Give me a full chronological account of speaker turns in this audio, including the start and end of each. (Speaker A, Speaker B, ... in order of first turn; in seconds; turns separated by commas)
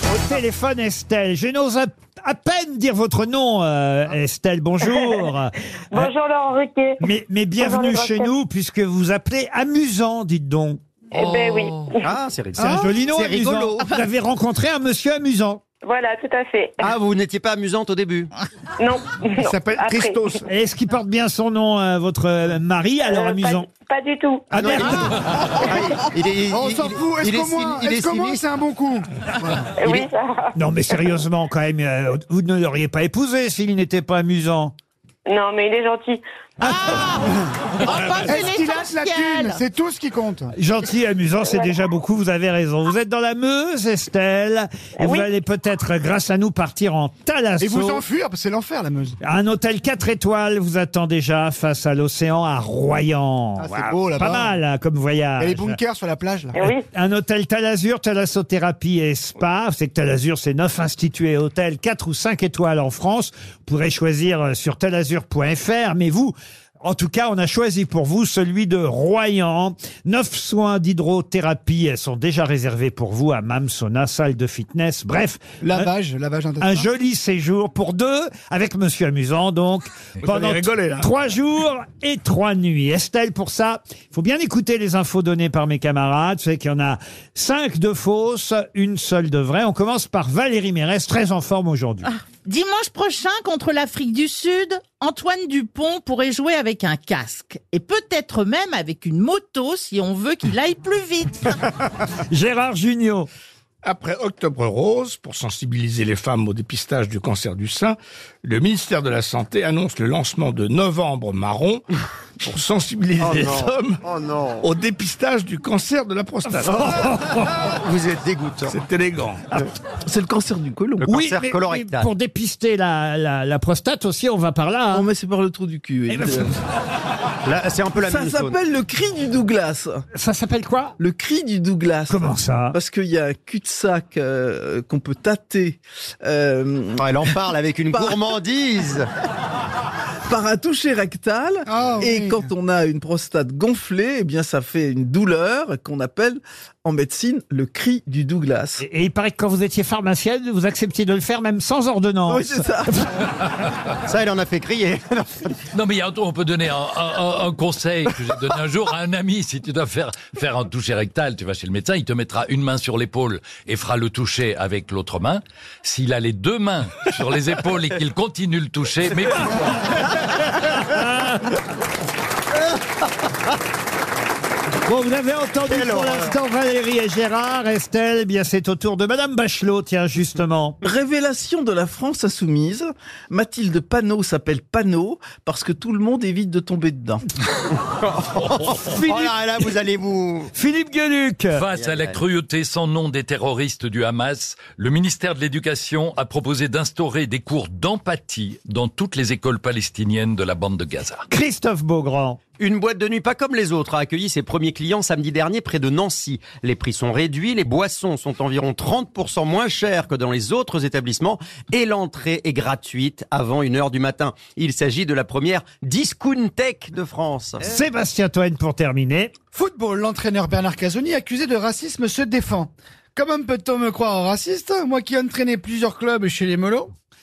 Speaker A: 0.2-6.1, Speaker B: 5.9-7.0, Speaker A: 7.0-10.8, Speaker B: 7.6-8.3, Speaker B: 11.1-12.1, Speaker C: 12.0-13.8, Speaker A: 12.6-15.6, Speaker B: 15.8-16.9, Speaker C: 16.8-18.3, Speaker B: 18.8-20.2, Speaker D: 19.4-20.4, Speaker A: 20.5-23.7, Speaker B: 23.1-24.4, Speaker A: 24.5-25.2, Speaker C: 24.5-28.5, Speaker D: 26.5-29.6, Speaker B: 29.7-30.5, Speaker A: 30.6-34.7, Speaker B: 35.3-36.2, Speaker E: 36.6-39.6, Speaker D: 38.2-40.5, Speaker A: 40.5-48.0, Speaker B: 41.5-41.7, Speaker B: 45.0-45.3, Speaker D: 47.6-49.1, Speaker A: 49.2-55.8, Speaker D: 53.6-54.5, Speaker D: 55.4-56.5, Speaker B: 56.5-56.8, Speaker A: 56.9-75.9, Speaker D: 75.6-76.9, Speaker A: 76.6-92.0, Speaker D: 80.3-81.0, Speaker E: 92.0-101.5, Speaker A: 102.3-103.3, Speaker F: 103.8-111.8, Speaker F: 112.4-114.0, Speaker C: 113.2-114.6, Speaker F: 114.6-117.1, Speaker C: 116.6-118.8, Speaker A: 117.0-117.4, Speaker F: 118.6-119.4, Speaker G: 120.1-121.1, Speaker C: 121.0-122.1, Speaker A: 121.1-125.1, Speaker G: 124.9-126.5, Speaker A: 126.1-126.5, Speaker C: 127.4-128.6, Speaker G: 128.0-130.0, Speaker A: 130.1-130.9, Speaker G: 131.0-138.3, Speaker A: 132.1-132.8, Speaker C: 137.0-139.1, Speaker G: 140.3-148.8, Speaker D: 141.7-142.5, Speaker A: 148.8-153.0, Speaker G: 152.3-153.0, Speaker C: 154.1-155.5, Speaker H: 155.7-169.9, Speaker A: 170.1-171.5, Speaker A: 174.8-180.8, Speaker C: 175.7-176.3, Speaker G: 180.8-187.2, Speaker C: 187.9-190.5, Speaker A: 188.9-189.4, Speaker A: 190.5-191.6, Speaker H: 191.5-201.2, Speaker C: 191.8-192.2, Speaker A: 201.3-202.4, Speaker C: 202.6-217.6, Speaker A: 217.6-219.3, Speaker D: 219.5-226.9